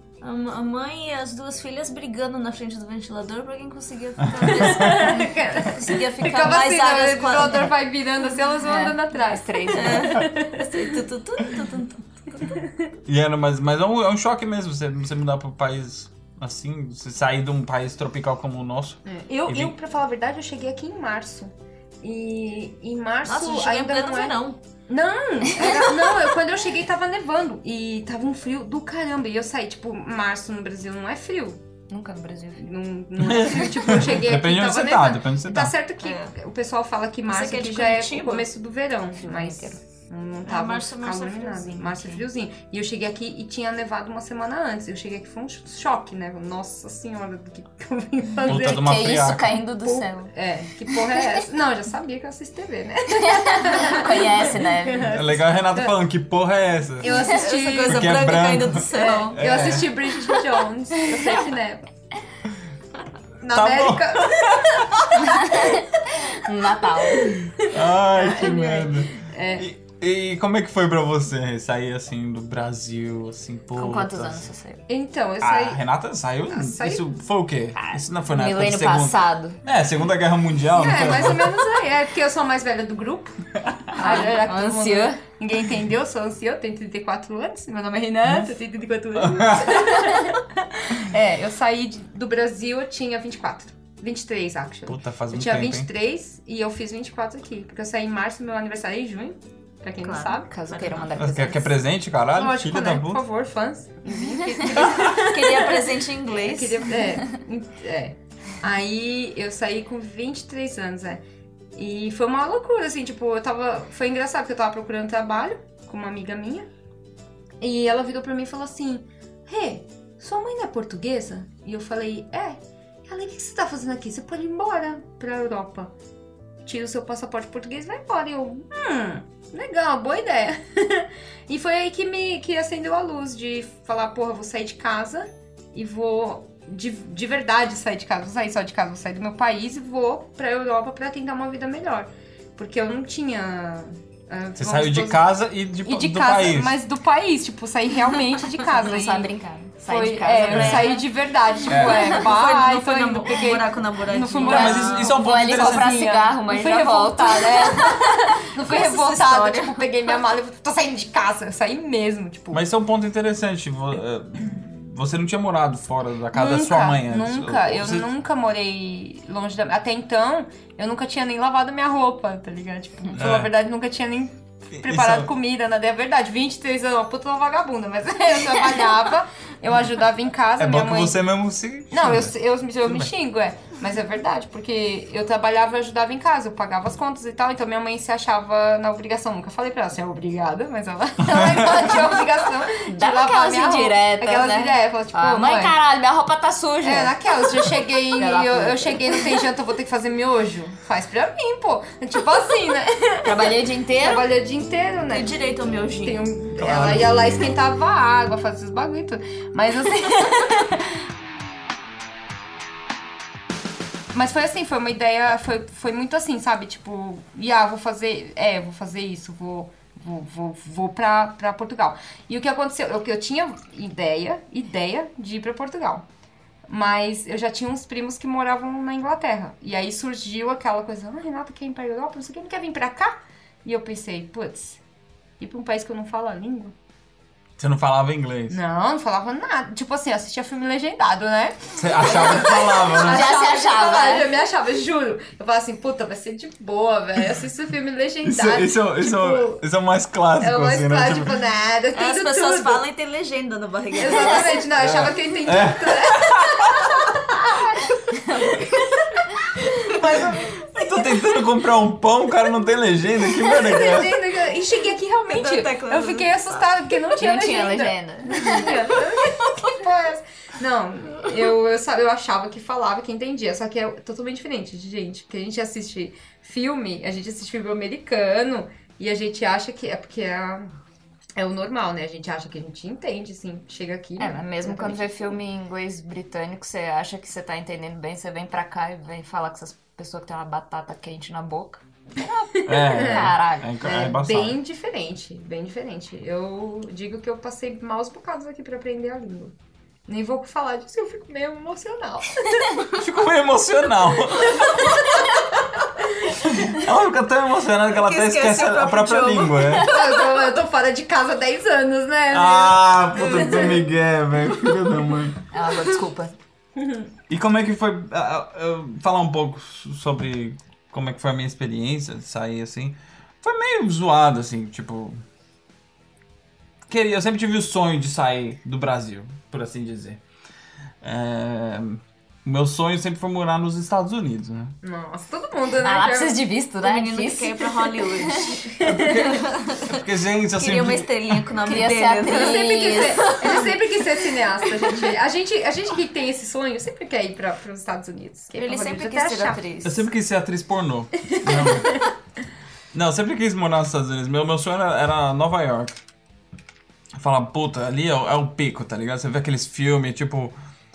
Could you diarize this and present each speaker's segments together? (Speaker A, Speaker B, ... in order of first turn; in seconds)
Speaker A: 0.2-7.7, 9.7-12.6, 23.2-24.6, 36.0-36.3, 37.3-38.5, 40.4-42.2, 57.1-59.4, 100.0-101.1, 104.7-106.9, 150.6-150.9, 151.7-155.1, 158.6-159.9, 205.1-206.3, 251.9-254.6, 265.3-266.7, 269.2-269.6, 307.9-310.0, 336.8-344.0, 348.6-350.0
Speaker B: 4.4-10.9, 12.5-12.8, 19.0-31.6, 32.6-49.0, 49.8-55.9, 57.0-58.2, 58.9-61.9, 63.4-66.3, 67.2-69.7, 74.9-75.8, 76.5-77.0, 80.7-100.5, 102.3-111.2, 111.7-116.7, 117.6-125.9, 126.6-145.3, 145.8-149.3, 149.8-162.6, 166.3-181.2, 181.9-195.7, 196.8-205.3, 206.0-210.7, 214.1-226.1, 226.7-234.8, 235.4-236.7, 238.5-249.6, 250.4-252.8, 254.0-258.8, 259.8-260.9, 263.4-280.7, 281.4-285.4, 292.2-299.5, 300.1-302.9, 304.6-305.2, 309.8-313.9, 316.8-317.0, 334.8-336.4, 342.2-349.6, 351.3-352.0
Speaker C: 8.6-10.2, 31.9-32.6, 39.2-39.8, 48.5-50.3, 53.2-55.4, 65.2-67.6, 73.7-74.8, 77.7-79.6, 83.9-85.2, 100.5-101.8, 148.8-151.0, 154.5-158.3, 192.7-199.2, 203.2-204.3, 242.9-244.3, 267.2-268.8, 284.2-294.1, 315.5-316.3, 335.8-339.0, 341.6-343.7
Speaker D: 13.1-19.7, 33.2-35.7, 48.5-49.6, 55.0-57.2, 57.9-60.0, 63.5-64.8, 67.7-74.5, 75.4-81.6, 89.2-90.0, 94.9-95.9, 101.2-103.2, 144.6-146.8, 150.5-150.9, 151.7-152.1, 154.4-155.9, 162.5-168.1, 173.1-173.5, 174.7-175.3, 180.6-183.1, 191.2-192.1, 206.6-207.4, 237.6-238.6, 241.8-243.3, 248.2-251.3, 254.8-257.0, 260.1-264.1, 292.7-294.6, 302.9-305.3, 306.3-309.9, 312.3-315.4, 317.3-325.2, 326.9-330.2, 331.0-334.8, 338.8-341.4, 349.8-352.0, 352.9-355.9, 357.1-360.5